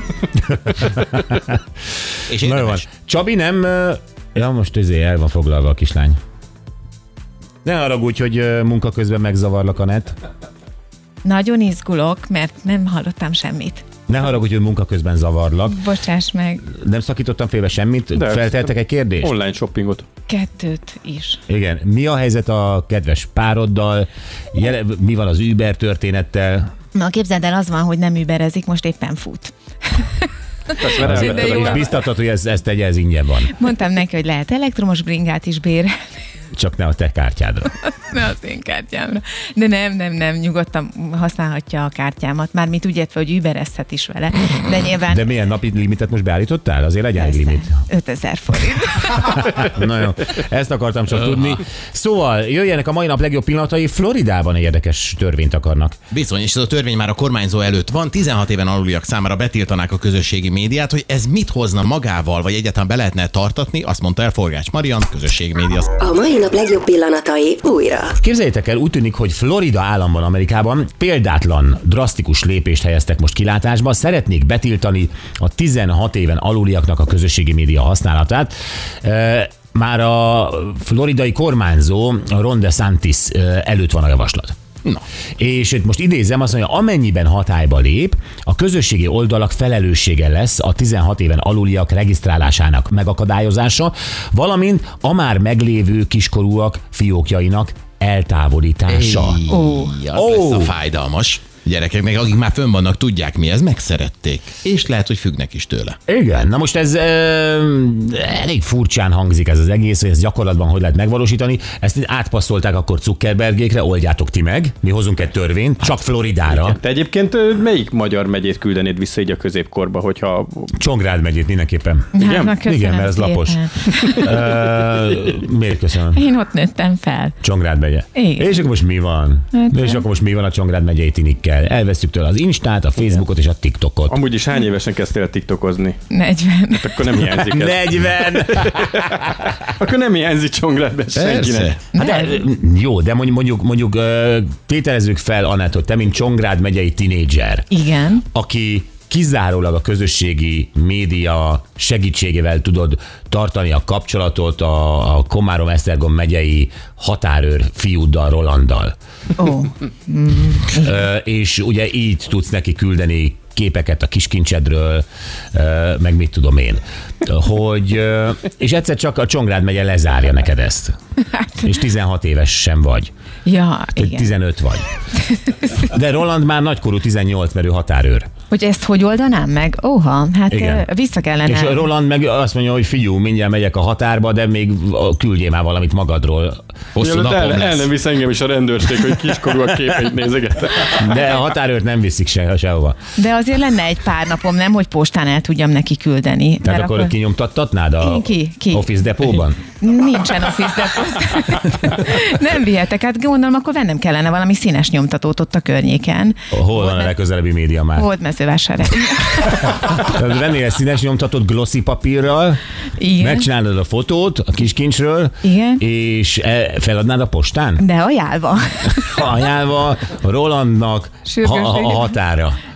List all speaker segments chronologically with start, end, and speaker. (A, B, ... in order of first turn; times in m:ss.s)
0:00.3-0:01.6 A
0:02.3-0:02.9 B
0:02.4-0:06.2 A
0:07.6-0:10.2 A
0:11.2-0:13.9 C
0:14.1-0:15.8 A
0:15.7-0:16.7 C
0:16.6-0:19.3 A
0:18.2-0:18.6 D
0:19.2-0:20.0 D
0:20.3-0:21.4 C
0:21.5-0:26.7 A
0:27.0-0:31.9 C
0:30.9-0:31.7 D
0:31.0-0:33.5 A
0:33.5-0:36.0 C
0:36.5-0:37.7 A
0:37.9-0:45.2 C
0:45.1-0:47.8 A
0:47.2-0:49.4 C
0:49.2-0:56.0 A
0:56.1-1:05.9 B
1:06.0-1:08.1 E
1:08.2-1:24.6 A
1:25.4-1:39.4 A
1:38.9-1:46.0 B
1:39.5-1:39.9 C
1:40.1-1:40.7 A
1:46.1-1:56.8 A
1:56.6-2:00.7 D
2:00.8-2:06.2 A
2:02.2-2:04.3 C
2:06.1-2:07.4 C
2:07.4-2:14.2 A
2:08.2-2:08.5 C
2:09.5-2:10.0 C
2:14.1-2:16.1 D
2:16.1-2:17.0 C
2:16.8-2:18.9 D
2:17.4-2:19.4 A
2:19.8-2:21.7 D
2:21.2-2:21.8 B
2:22.0-2:22.4 C
2:22.0-2:27.7 A
2:27.7-2:28.2 C
2:28.3-2:38.9 A
2:39.4-2:40.9 C
2:40.7-2:51.0 A
2:51.6-2:53.1 A
2:53.4-2:54.3 C
2:54.0-2:54.9 A
2:55.8-2:58.3 A
2:58.5-3:01.8 C
3:00.5-3:00.9 A
3:01.5-3:06.6 A
3:07.0-3:07.9 B
3:07.0-3:11.0 D
3:11.0-3:13.0 A
3:13.2-3:17.1 C
3:16.6-3:19.6 A
3:18.0-3:27.1 C
3:26.5-3:28.1 A
3:28.0-3:29.8 C
3:29.9-3:32.6 A
3:33.0-3:33.5 C
3:33.2-3:37.9 A
3:35.4-3:35.8 C
3:37.8-3:39.3 C
3:39.0-3:42.6 A
3:41.3-3:42.2 C